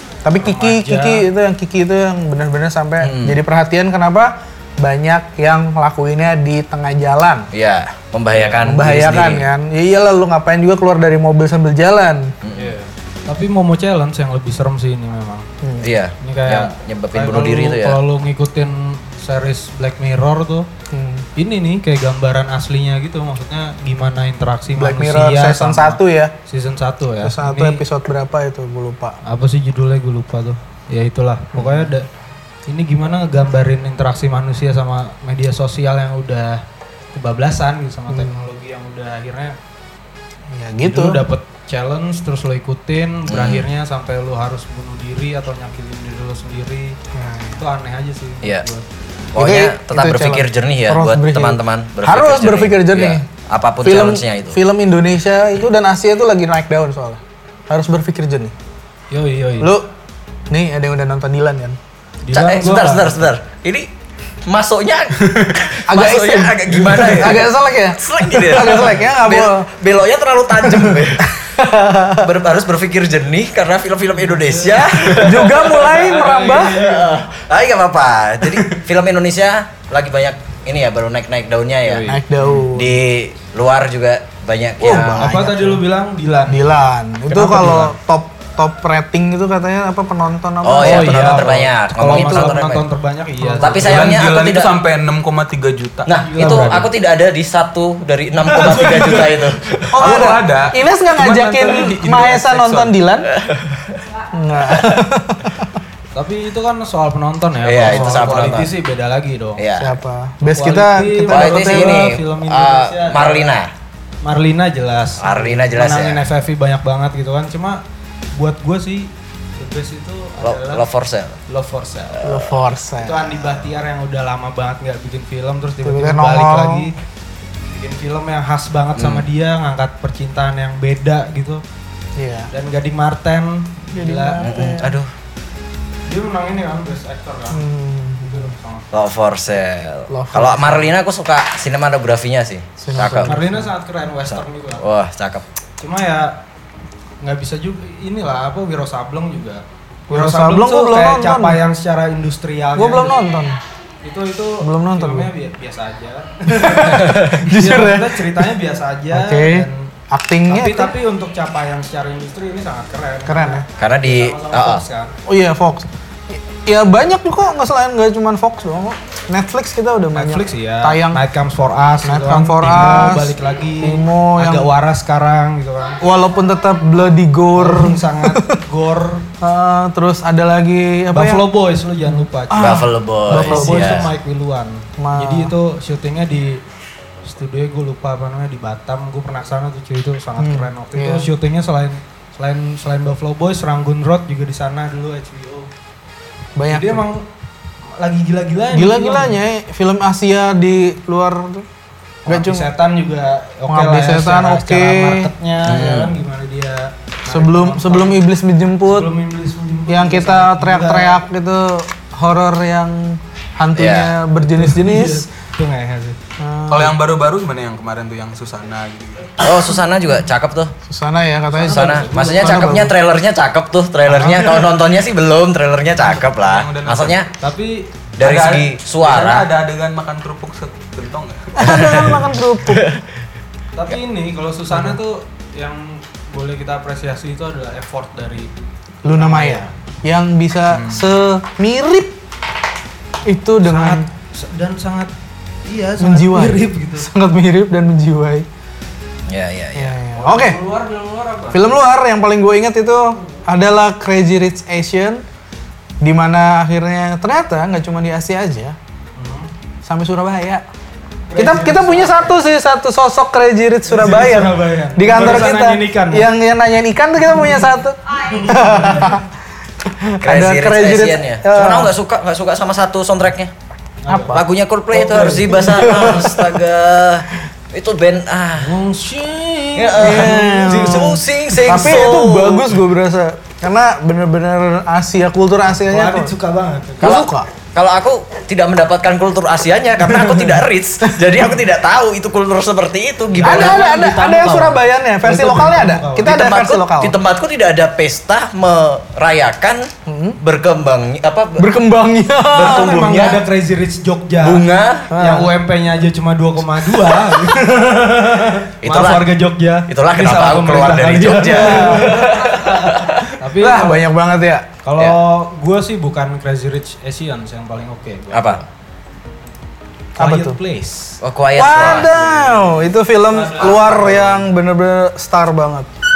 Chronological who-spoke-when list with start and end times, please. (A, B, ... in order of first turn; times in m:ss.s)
0:00.2-0:07.5 A
0:00.4-0:01.2 B
0:03.0-0:03.4 C
0:07.5-0:09.4 C
0:08.6-0:12.3 A
0:12.4-0:12.7 C
0:12.5-0:15.5 B
0:15.6-0:15.9 A
0:15.8-0:18.0 C
0:16.2-0:20.7 B
0:20.9-0:21.2 A
0:21.4-0:27.8 B
0:24.8-0:26.3 A
0:27.2-0:29.2 A
0:29.2-0:32.0 B
0:31.5-0:31.9 A
0:32.7-0:36.6 B
0:37.1-0:39.6 B
0:38.1-0:38.4 A
0:40.5-0:41.2 A
0:40.8-0:47.0 B
0:43.3-0:43.6 C
0:47.1-0:47.6 A
0:47.6-0:48.8 B
0:49.3-0:54.6 C
0:49.4-0:53.2 A
0:53.8-0:58.5 A
0:59.1-0:59.7 B
0:59.6-0:59.9 A
1:00.5-1:01.8 A
1:02.2-1:03.2 B
1:02.3-1:03.9 C
1:04.4-1:11.4 C
1:05.8-1:09.7 A
1:10.6-1:12.3 A
1:12.2-1:15.7 C
1:14.2-1:17.2 B
1:15.2-1:16.8 A
1:16.6-1:22.1 C
1:21.8-1:22.7 B
1:22.0-1:23.0 A
1:22.7-1:25.4 C
1:24.8-1:25.8 A
1:25.2-1:26.6 B
1:26.5-1:32.6 A
1:27.3-1:27.9 B
1:30.6-1:32.8 C
1:30.8-1:34.2 B
1:33.4-1:33.8 A
1:33.6-1:34.7 C
1:33.8-1:36.1 D
1:36.0-1:40.3 C
1:36.2-1:36.9 B
1:38.4-1:39.5 B
1:39.9-1:43.3 A
1:40.0-1:42.9 D
1:43.3-1:44.0 C
1:44.3-1:45.8 A
1:46.1-1:49.6 B
1:47.6-1:48.7 C
1:49.6-1:49.9 C
1:49.8-1:52.1 A
1:50.5-1:53.5 B
1:51.3-1:53.7 C
1:54.2-1:57.8 B
1:55.2-1:56.2 C
1:58.3-2:00.8 B
2:00.4-2:01.4 C
2:01.5-2:02.3 B
2:02.2-2:02.5 C
2:02.2-2:03.5 A
2:03.0-2:06.9 B
2:05.8-2:06.9 A
2:07.7-2:11.6 B
2:09.0-2:09.2 C
2:12.2-2:12.5 A
2:12.5-2:14.4 B
2:13.9-2:15.0 A
2:14.4-2:15.1 C
2:16.1-2:17.6 B
2:17.5-2:18.5 A
2:18.2-2:18.9 B
2:18.9-2:23.4 C
2:20.1-2:20.9 A
2:22.8-2:23.7 A
2:23.2-2:24.8 B
2:24.3-2:25.4 C
2:25.8-2:26.4 B
2:27.2-2:33.2 B
2:30.1-2:31.6 A
2:32.8-2:33.6 A
2:34.0-2:39.9 B
2:34.6-2:35.3 A
2:36.5-2:38.5 A
2:39.1-2:41.0 A
2:40.5-2:45.1 B
2:43.2-2:43.6 A
2:43.8-2:44.8 C
2:45.2-2:51.2 A
2:50.1-2:56.0 B
2:52.0-2:54.7 A
2:56.0-2:58.6 A
2:57.5-2:59.2 B
2:59.4-3:01.4 A
3:01.1-3:06.6 B
3:02.1-3:04.0 A
3:02.6-3:04.1 C
3:05.0-3:05.5 A
3:07.2-3:15.7 B
3:10.4-3:11.3 A
3:16.6-3:17.0 A
3:16.7-3:17.2 B
3:18.0-3:19.4 B
3:18.7-3:21.6 A
3:22.2-3:28.2 B
3:22.3-3:22.7 A
3:23.7-3:25.3 A
3:25.6-3:26.2 C
3:27.3-3:29.1 A
3:28.8-3:31.2 B
3:29.9-3:35.2 A
3:33.7-3:34.1 C
3:34.4-3:36.2 B
3:36.4-3:37.0 A
3:36.7-3:39.4 D
3:39.4-3:40.7 C
3:40.8-3:42.9 A
3:41.6-3:47.3 C
3:41.6-3:42.8 B
3:44.1-3:44.7 B
3:46.0-3:47.2 D
3:47.4-3:47.9 B
3:48.2-3:49.5 C
3:48.2-3:51.9 D
3:51.6-3:52.9 A
3:51.6-3:52.1 C
3:52.7-3:53.0 C
3:53.7-3:58.5 B
3:54.7-3:55.0 A
3:59.0-4:02.2 A
3:59.1-3:59.7 B
4:03.2-4:04.0 A
4:03.6-4:05.1 B
4:05.7-4:07.1 B
4:06.0-4:08.5 A
4:09.3-4:10.0 C
4:09.7-4:10.6 A
4:10.2-4:11.8 B
4:11.5-4:15.2 A
4:16.0-4:18.8 A
4:19.2-4:19.5 B
4:19.8-4:20.6 A
4:21.3-4:22.4 B
4:21.4-4:29.2 A
4:23.8-4:26.3 B
4:28.1-4:29.2 B
4:29.8-4:31.9 A
4:30.2-4:33.5 C
4:34.0-4:34.4 B
4:34.1-4:34.4 A
4:34.3-4:38.7 C
4:34.9-4:35.9 B
4:35.6-4:36.6 A
4:38.6-4:41.5 B
4:39.8-4:42.8 C
4:40.0-4:46.3 A
4:45.9-4:47.1 B
4:47.0-4:47.5 A
4:47.0-4:53.8 C
4:50.1-4:50.4 A
4:53.3-4:56.3 B
4:53.4-4:57.1 A
4:56.2-4:59.9 C
5:00.1-5:00.4 A
5:00.4-5:01.7 C
5:01.6-5:03.0 A
5:02.5-5:03.4 C
5:02.5-5:14.1 B
5:04.4-5:05.1 C
5:05.1-5:05.5 A
5:08.8-5:09.3 C
5:09.9-5:13.3 C
5:11.4-5:12.2 A
5:13.6-5:14.7 A
5:14.8-5:18.7 B
5:18.3-5:18.6 C
5:20.2-5:21.2 B
5:20.2-5:20.6 A
5:21.2-5:22.1 C
5:21.6-5:25.9 A
5:21.7-5:24.1 B
5:23.6-5:24.4 C